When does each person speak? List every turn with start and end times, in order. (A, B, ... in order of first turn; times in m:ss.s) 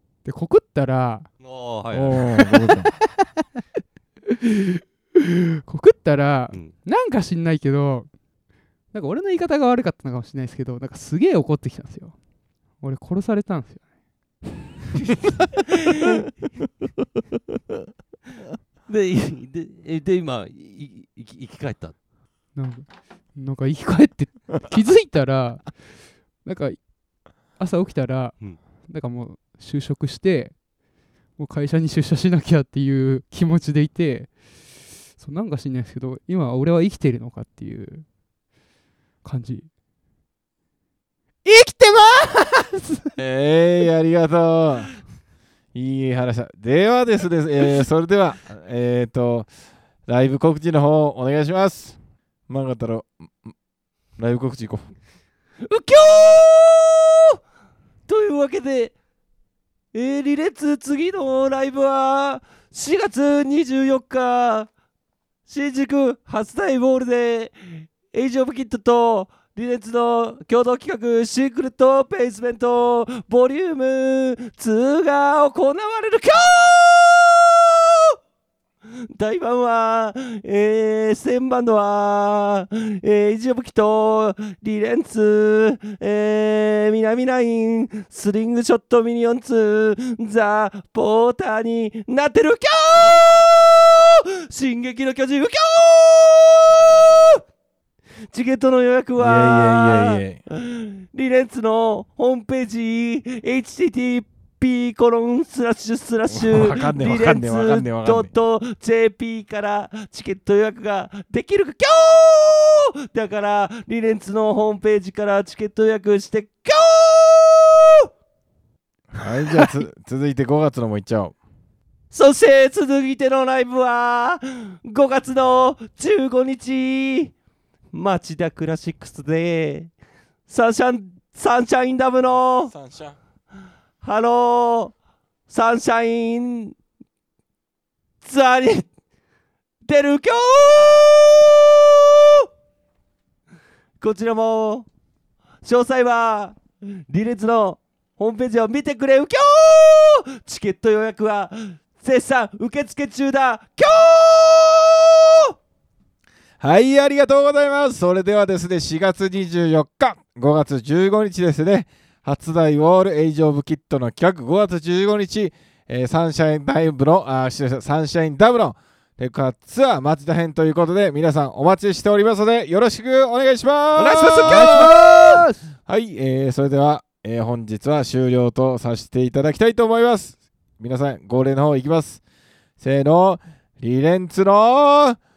0:00.2-0:01.3 A
0:01.4-0:02.2 B
0:01.9-0:02.9 C
0:02.2-0:03.3 A
0:04.3-0:08.1 A
0:08.9-0:12.2 A
0:12.8-0:13.8 A
0:15.9-0:16.2 B
0:18.9-0:22.0 B
0:22.6-0:25.7 A
0:26.4-0:26.8 A
0:27.6-0:30.6 A
0:31.4-0:34.3 A
0:35.1-0:38.1 A
0:39.2-0:39.7 A
0:41.4-0:43.1 A
0:43.2-0:44.9 C
0:45.7-0:49.5 C
0:50.1-0:53.5 C
0:54.2-0:54.8 C
0:55.7-0:57.1 B
0:58.1-0:59.0 B
0:59.9-1:04.7 B
1:05.5-1:17.8 B
1:19.2-1:37.4 B
1:38.3-1:58.0 B
1:39.2-1:40.4 C
1:46.3-1:48.3 C
1:59.1-2:01.4 C
1:59.5-1:59.8 B
2:02.1-2:07.3 B
2:07.9-2:09.9 B
2:10.5-2:12.7 B
2:12.7-2:13.2 C
2:14.0-2:14.9 B
2:15.5-2:16.8 B
2:18.2-2:18.9 B
2:19.8-2:22.5 B
2:24.0-2:24.9 B
2:25.6-2:35.5 B
2:36.6-2:54.9 C
2:54.0-2:55.4 B
2:54.4-2:55.6 A
2:55.9-3:02.2 C
3:02.8-3:05.2 C